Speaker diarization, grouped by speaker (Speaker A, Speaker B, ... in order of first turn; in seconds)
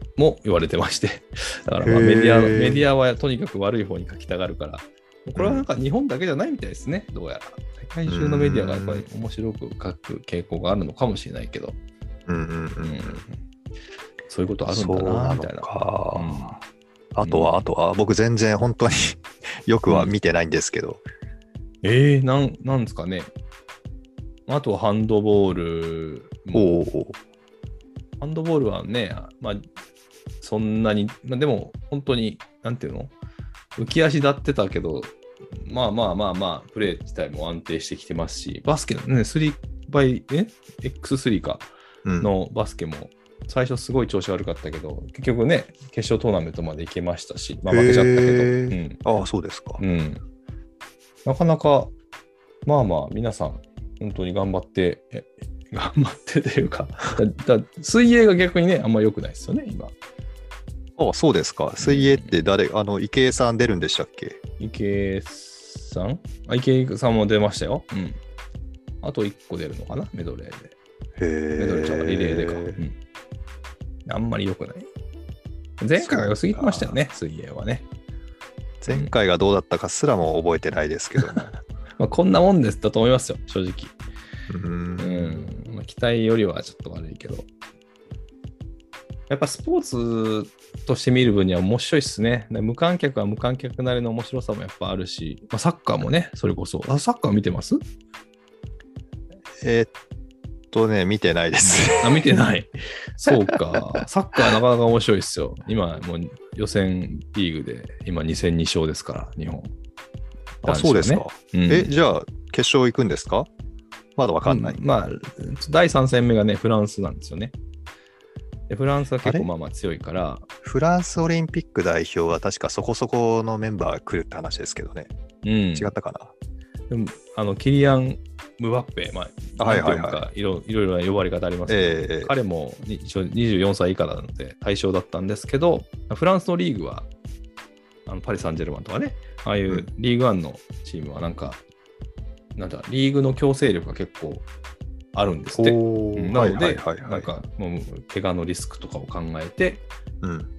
Speaker A: 0.2-11.8, 12.8-13.4, 14.3-16.6, 17.2-17.6, 19.9-20.1, 21.8-23.3, 24.5-26.7, 28.2-29.6, 30.4-33.1, 33.8-49.0, 49.8-50.2, 51.2-51.9, 52.6-59.9, 61.8-62.4, 64.6-68.2, 69.0-70.7, 71.6-73.0, 74.0-74.9, 75.8-77.8, 82.0-84.0, 85.0-87.5, 89.3-97.8, 101.7-109.7, 110.6-111.9, 114.5-117.5, 118.7-120.5, 125.4-125.9, 126.9-137.1, 138.1-141.6, 142.6-144.4, 145.1-149.8
Speaker B: 1.8-2.9, 5.3-5.7, 8.1-9.0, 12.3-13.2, 14.7-16.6, 17.1-21.0, 26.5-27.2, 42.0-42.3, 47.7-49.8, 61.0-64.4, 71.2-72.8, 76.0-77.0, 78.8-81.5, 84.5-85.5, 99.6-99.9, 100.7-102.3, 110.6-113.5, 114.2-114.8, 119.2-119.5, 120.6-125.1, 125.7-126.3, 129.6-130.2, 131.7-132.3, 145.5-147.3, 150.2-150.5